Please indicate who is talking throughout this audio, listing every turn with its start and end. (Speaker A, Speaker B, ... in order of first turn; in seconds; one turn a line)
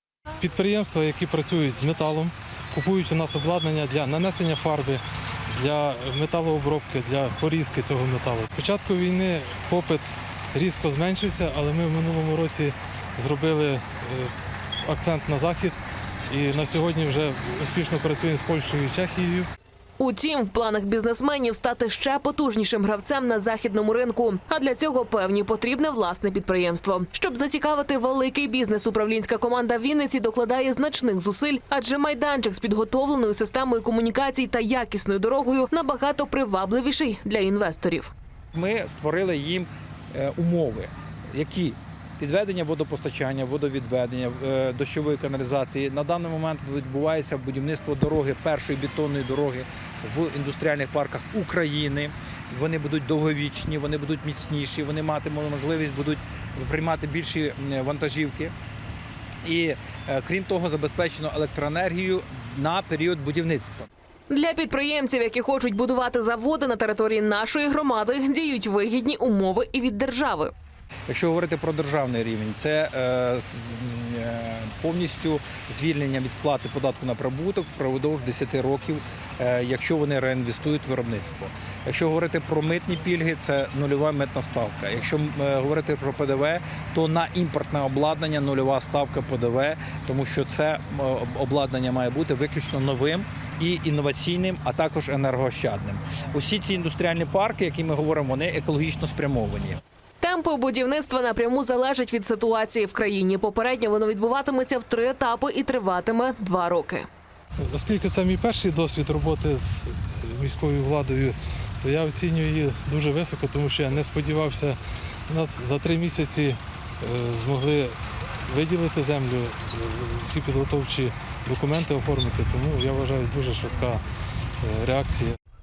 Speaker A: 0.4-5.0
Speaker A: 5.6-14.3
Speaker A: 14.8-15.8
Speaker A: 16.3-19.5
Speaker B: 20.0-38.1
Speaker C: 38.5-58.5
Speaker C: 59.4-63.9
Speaker B: 64.3-70.5
Speaker C: 71.1-99.8
Speaker B: 100.2-107.1
Speaker A: 107.7-117.9
Speaker A: 118.5-124.0
Speaker A: 124.6-125.3